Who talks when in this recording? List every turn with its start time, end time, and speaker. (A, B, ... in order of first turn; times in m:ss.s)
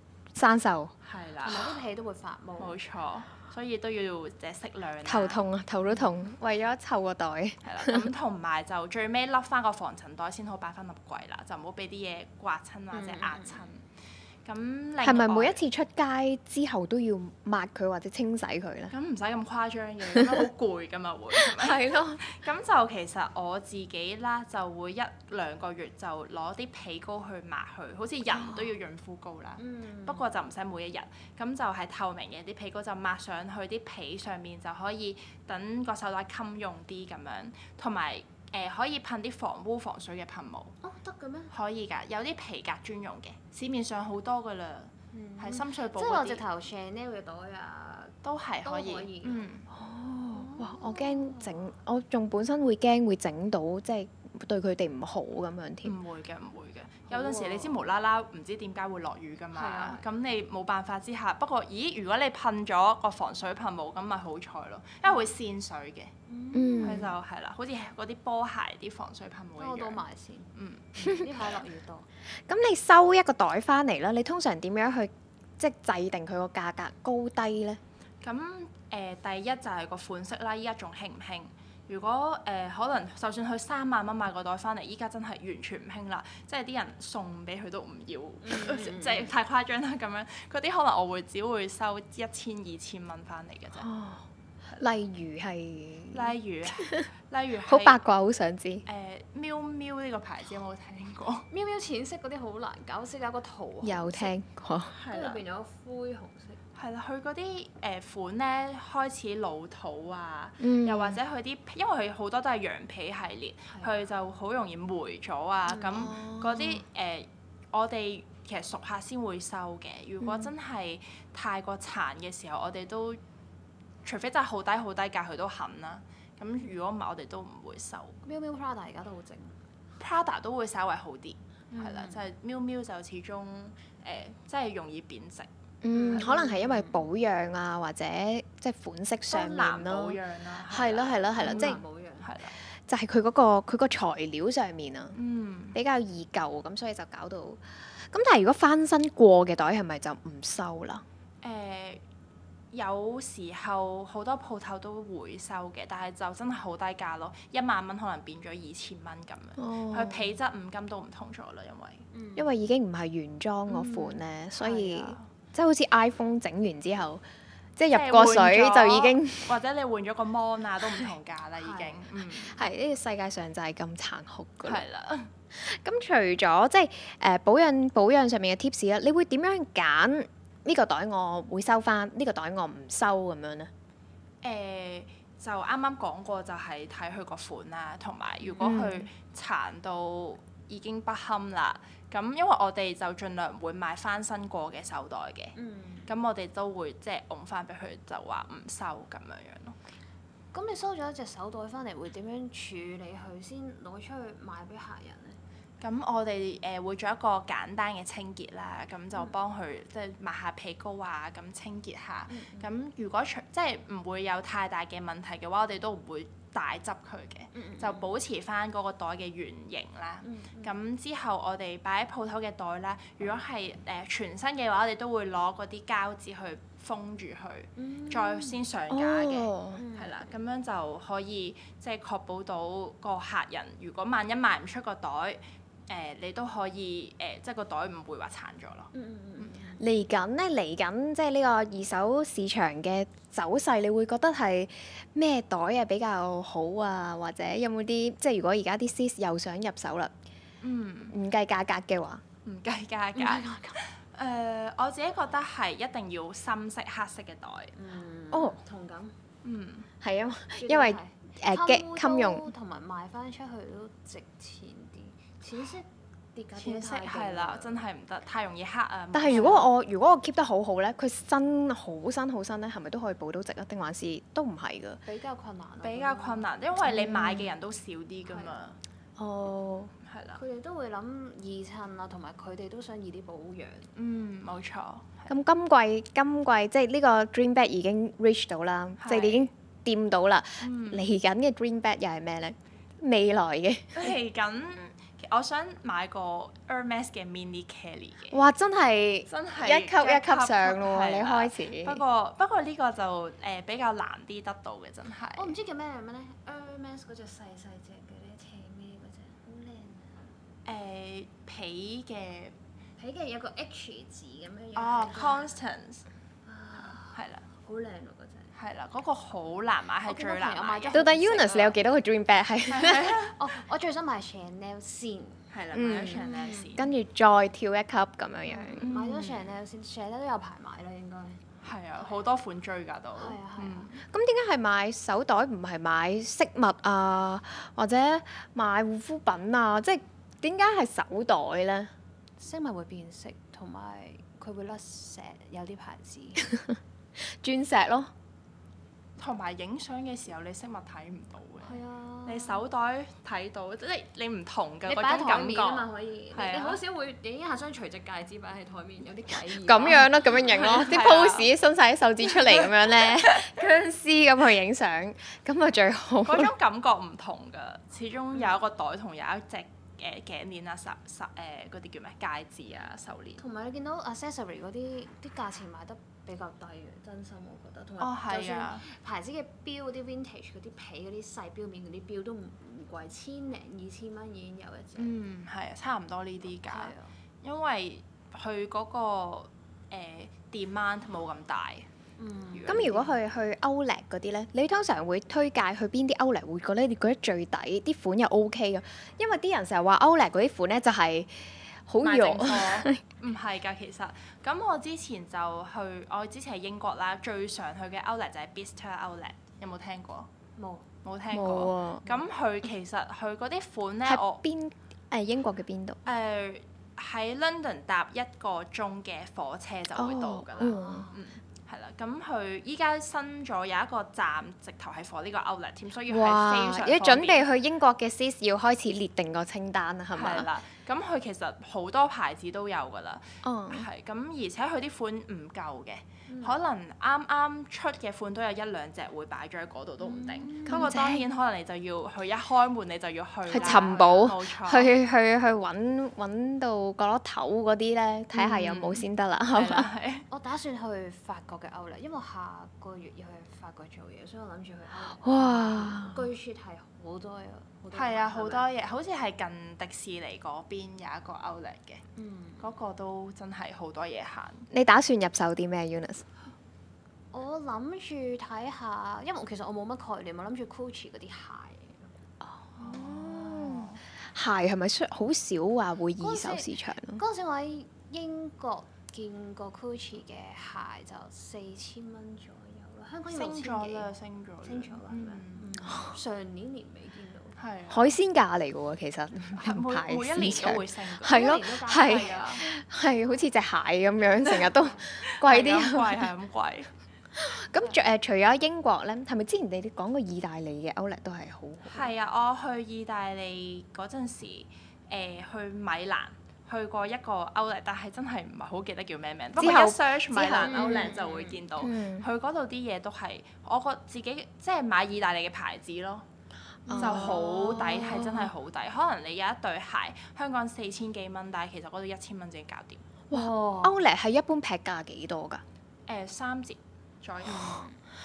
0:00.4-0:00.9 A
0:01.1-0:01.8 B
0:01.4-0:02.8 C
0:02.6-0:05.4 B
0:05.0-0:08.1 A
0:07.6-0:13.8 B
0:12.9-0:13.7 C
0:14.4-0:15.6 B
0:15.0-0:18.9 A
0:18.9-0:40.8 B
0:21.3-0:22.2 A
0:28.3-0:28.7 A
0:29.6-0:30.3 C
0:40.8-0:41.5 C
0:41.5-0:46.4 B
0:45.1-0:49.5 C
0:48.2-0:49.6 B
0:49.7-0:56.0 A
0:50.3-0:51.6 C
0:55.8-1:06.1 B
0:57.1-0:57.8 C
0:59.5-1:00.0 C
1:05.1-1:05.3 C
1:06.3-1:07.1 C
1:06.5-1:07.1 A
1:06.8-1:10.0 B
1:09.6-1:12.1 C
1:10.6-1:11.5 B
1:12.5-1:17.8 A
1:18.2-1:33.9 B
1:28.4-1:29.3 C
1:33.8-1:34.2 A
1:34.8-1:37.1 A
1:36.1-1:38.0 B
1:37.7-1:38.8 A
1:38.9-1:41.5 B
1:41.5-1:44.3 C
1:43.8-1:44.9 A
1:44.9-1:45.4 B
1:45.1-1:46.6 C
1:46.8-2:03.2 B
1:50.6-1:51.2 A
1:53.7-1:54.0 C
1:55.8-1:56.1 C
1:55.8-1:56.8 A
2:00.2-2:00.5 A
2:04.0-2:08.2 B
2:08.2-2:09.6 C
2:10.0-2:15.5 B
2:11.7-2:12.2 C
2:15.8-2:21.8 A
2:15.9-2:17.1 C
2:19.3-2:22.6 B
2:21.4-2:22.3 C
2:22.9-2:25.2 A
2:25.2-2:25.8 B
2:25.7-2:31.0 A
2:31.4-2:32.0 B
2:32.7-2:42.0 B
2:39.6-2:40.3 A
2:42.1-2:42.5 C
2:42.4-2:47.2 A
2:43.7-2:45.2 C
2:47.8-2:49.5 A
2:47.9-2:52.6 B
2:51.6-2:52.0 C
2:52.6-2:54.8 A
2:54.6-2:55.3 B
2:55.6-3:03.7 A
3:04.4-3:15.6 B
3:08.4-3:08.9 C
3:08.6-3:09.1 A
3:15.6-3:16.1 C
3:16.1-3:19.8 B
3:20.5-3:25.4 C
3:25.8-3:59.5 B
3:32.3-3:32.7 C
3:37.5-3:38.1 C
3:40.2-3:40.8 C
3:47.8-3:48.6 C
3:48.9-3:49.8 A
3:49.8-3:50.4 C
3:58.9-3:59.8 C
3:59.8-4:10.1 A
4:10.6-4:11.1 B
4:11.1-4:12.2 A
4:12.4-4:17.7 B
4:13.2-4:13.8 C
4:17.8-4:19.2 C
4:18.3-4:18.6 A
4:19.4-4:19.9 B
4:20.0-4:22.5 A
4:20.6-4:27.8 C
4:26.6-4:29.7 B
4:29.1-4:35.0 A
4:29.3-4:29.6 C
4:35.0-4:36.5 C
4:35.8-4:38.8 B
4:36.8-4:37.5 A
4:38.3-4:38.6 C
4:39.2-4:39.9 A
4:40.0-4:40.4 B
4:40.4-4:43.9 C
4:44.0-4:45.3 B
4:45.3-4:54.1 A
4:49.0-4:49.5 B
4:50.6-4:51.1 B
4:54.0-4:58.4 B
4:58.3-5:02.0 A
4:59.3-5:05.5 B
5:05.4-5:10.4 C
5:10.7-5:12.6 B
5:13.0-5:15.6 C
5:14.8-5:16.0 B
5:16.4-5:18.5 C
5:16.9-5:17.4 B
5:18.6-5:21.1 B
5:20.1-5:21.8 C
5:20.9-5:23.2 A
5:22.7-5:23.4 B
5:23.4-5:25.5 C
5:25.5-5:26.9 B
5:25.7-5:28.9 A
5:26.1-5:26.7 C
5:28.5-5:31.4 C
5:28.8-5:29.6 B
5:31.6-5:34.0 B
5:33.2-5:33.9 C
5:34.0-5:41.9 A
5:42.4-5:46.4 C
5:46.4-5:48.1 A
5:49.2-5:56.8 B
5:51.6-5:52.6 C
5:54.8-6:00.4 C
5:59.5-6:06.5 A
6:00.4-6:01.5 B
6:02.5-6:03.5 B
6:06.3-6:13.4 B
6:13.4-6:25.2 C
6:18.0-6:18.8 B
6:25.0-6:31.9 B
6:26.7-6:27.1 C
6:32.2-6:33.1 C
6:32.5-6:33.0 B
6:32.7-6:43.0 A
6:42.0-6:50.3 B
6:50.6-6:50.9 C
6:51.0-6:54.4 B
6:51.3-6:52.1 A
6:54.1-6:56.0 A
6:56.1-7:07.5 B
7:00.0-7:01.1 A
7:00.6-7:01.1 C
7:06.1-7:10.5 A
7:10.1-7:24.9 B
7:13.4-7:13.9 A
7:16.3-7:16.6 C
7:20.0-7:20.9 C
7:20.7-7:21.2 A
7:23.5-7:29.9 A
7:23.5-7:24.0 C
7:28.4-7:30.3 B
7:30.3-7:38.7 C
7:35.2-7:36.3 A
7:37.9-7:42.0 B
7:42.2-7:42.7 C
7:42.6-7:44.7 B
7:44.7-7:46.3 A
7:47.3-7:52.1 C
7:52.4-7:57.2 A
7:52.8-7:54.0 B
7:56.2-8:04.1 C
8:03.3-8:05.8 B
8:04.6-8:07.6 C
8:05.8-8:06.1 A
8:07.6-8:08.1 B
8:07.9-8:16.3 A
8:09.6-8:12.6 B
8:11.2-8:12.6 C
8:14.7-8:15.1 C
8:15.3-8:16.9 B
8:17.4-8:22.1 A
8:21.9-8:36.3 B
8:29.6-8:31.2 A
8:30.6-8:31.6 C
8:31.8-8:32.3 A
8:36.9-8:38.5 A
8:36.9-8:37.3 C
8:37.0-8:43.1 B
8:43.3-8:43.9 C
8:43.3-8:45.6 A
8:46.1-8:47.9 B
8:47.5-8:48.0 C